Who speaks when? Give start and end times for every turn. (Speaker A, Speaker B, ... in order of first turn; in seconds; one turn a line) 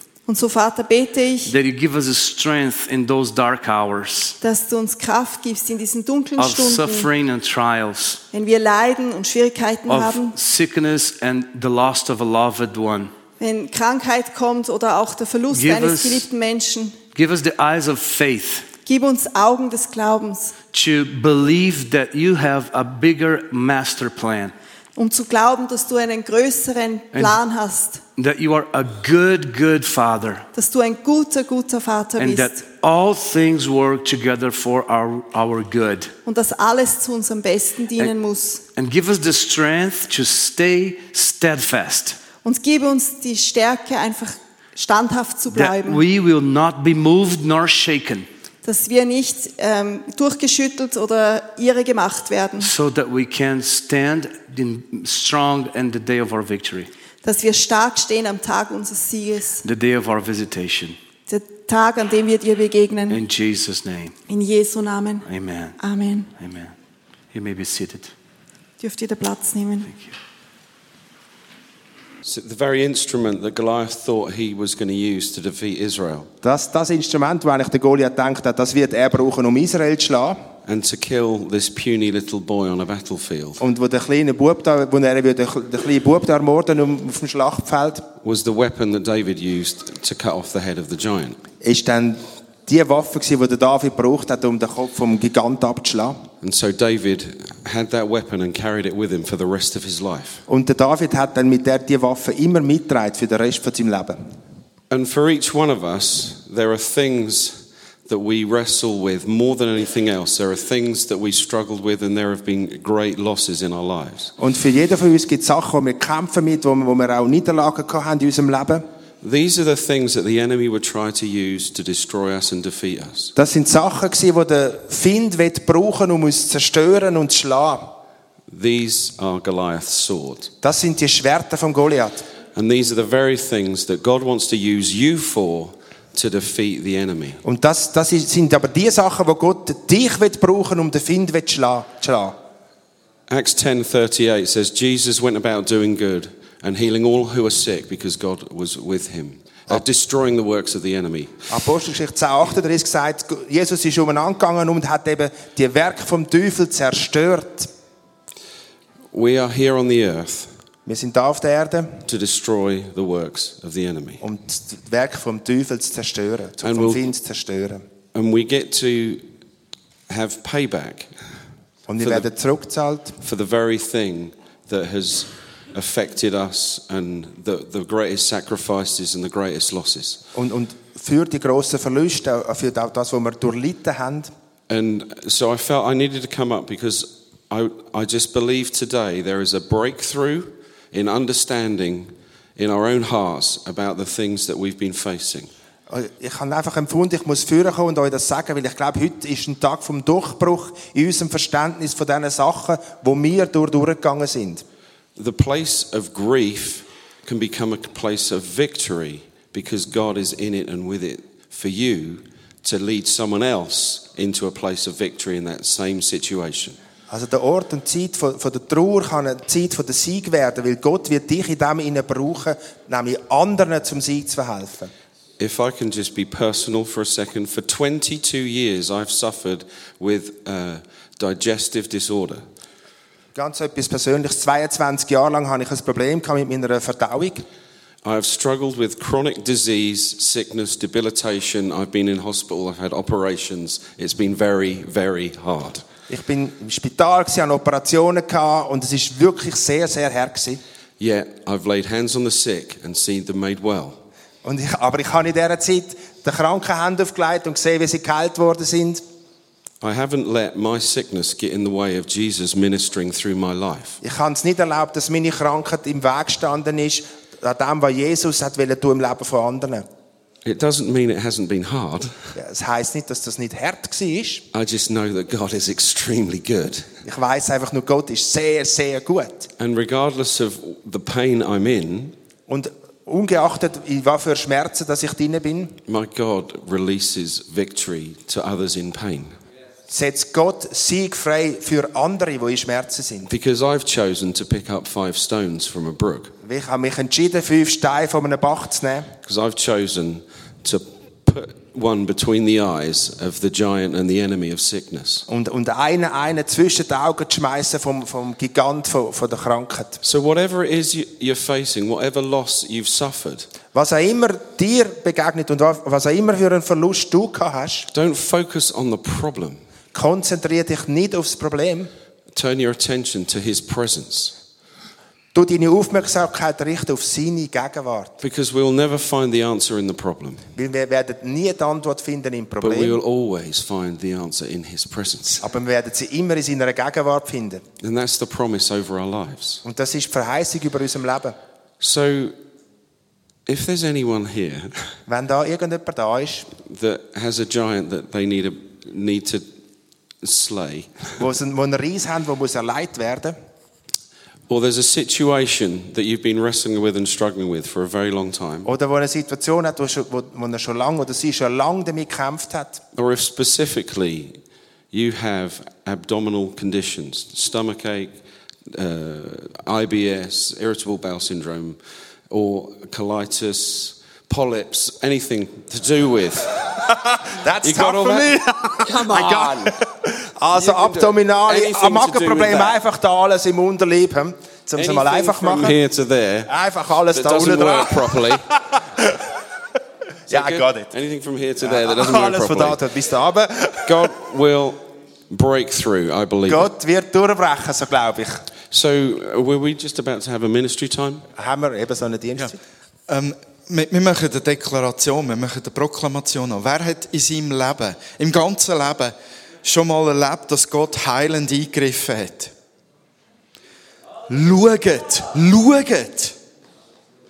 Speaker A: 0.3-1.5
Speaker B: 1.4-4.4
Speaker A: 4.4-7.1
Speaker B: 6.4-8.2
Speaker A: 8.3-10.3
Speaker B: 9.9-13.1
Speaker A: 13.4-17.0
Speaker B: 15.5-16.3
Speaker B: 17.1-18.7
Speaker A: 18.9-20.6
Speaker B: 20.7-24.5
Speaker A: 25.0-28.0
Speaker B: 28.2-30.5
Speaker A: 30.5-32.6
Speaker B: 32.2-36.1
Speaker A: 36.2-38.6
Speaker B: 38.7-42.2
Speaker A: 42.4-46.0
Speaker B: 45.5-48.3
Speaker A: 48.6-52.7
Speaker B: 52.6-56.9
Speaker A: 57.2-59.6
Speaker B: 59.6-61.0
Speaker A: 61.3-63.2
Speaker B: 63.1-64.2
Speaker A: 64.3-65.3
Speaker B: 65.2-65.8
Speaker A: 65.8-66.3
Speaker B: 66.4-66.7
Speaker B: 67.3-68.1
Speaker A: 68.8-69.9
Speaker B: 69.9-70.1
Speaker C: 72.2-76.3
Speaker D: 76.4-80.4
Speaker C: 80.7-83.6
Speaker D: 83.6-88.1
Speaker C: 88.2-91.4
Speaker D: 91.6-96.2
Speaker C: 96.4-100.4
Speaker D: 100.5-104.2
Speaker C: 104.9-114.3
Speaker D: 114.4-118.8
Speaker C: 119.2-123.3
Speaker D: 123.4-128.0
Speaker C: 128.5-130.5
Speaker D: 130.6-132.3
Speaker C: 132.5-137.4
Speaker D: 137.4-142.4
Speaker C: 143.3-151.5
Speaker D: 151.5-157.7
Speaker C: 159.1-160.5
Speaker D: 160.9-161.9
Speaker C: 162.1-164.2
Speaker D: 164.2-167.8
Speaker C: 166.6-167.1
Speaker C: 168.1-169.3
Speaker C: 170.1-171.1
Speaker D: 171.9-173.2
Speaker C: 172.0-172.3
Speaker C: 173.2-180.2
Speaker D: 180.4-184.3
Speaker C: 184.7-195.5
Speaker D: 195.9-204.6
Speaker C: 205.2-216.8
Speaker D: 217.1-224.9
Speaker C: 225.4-232.4
Speaker D: 233.3-237.4
Speaker C: 238.0-245.8
Speaker D: 246.1-250.6
Speaker C: 251.0-254.0
Speaker D: 254.4-259.0
Speaker C: 259.8-264.0
Speaker D: 264.0-269.9
Speaker C: 270.4-272.3
Speaker D: 272.4-274.4
Speaker C: 274.5-276.9
Speaker D: 277.0-279.5
Speaker C: 279.6-282.1
Speaker D: 282.5-285.8
Speaker C: 285.9-289.4
Speaker D: 289.9-293.3
Speaker C: 293.3-296.3
Speaker D: 296.4-299.1
Speaker C: 299.2-305.3
Speaker D: 305.3-310.0
Speaker C: 310.0-313.5
Speaker D: 313.7-317.9
Speaker C: 317.9-319.6
Speaker D: 319.9-321.9
Speaker C: 322.3-324.4
Speaker D: 325.3-328.1
Speaker C: 328.2-330.5
Speaker D: 330.6-333.0
Speaker C: 332.6-335.4
Speaker D: 335.4-337.6
Speaker C: 337.8-339.6
Speaker D: 339.6-341.4
Speaker C: 341.8-342.4
Speaker C: 343.5-344.9
Speaker D: 345.1-346.5
Speaker C: 346.6-349.5
Speaker C: 350.2-351.1
Speaker D: 351.2-353.4
Speaker C: 354.5-358.7
Speaker D: 358.6-362.8
Speaker C: 362.9-364.4
Speaker C: 364.9-368.2
Speaker C: 368.7-371.8
Speaker C: 372.3-379.7
Speaker D: 377.1-385.8
Speaker C: 380.5-382.8
Speaker C: 384.8-386.5
Speaker D: 386.5-389.2
Speaker C: 387.1-388.5
Speaker D: 390.3-390.9
Speaker C: 390.3-392.8
Speaker D: 391.6-394.1
Speaker C: 393.9-396.7
Speaker D: 396.5-398.4
Speaker C: 398.7-401.3
Speaker D: 401.4-402.6
Speaker E: 403.1-412.5
Speaker E: 414.3-416.4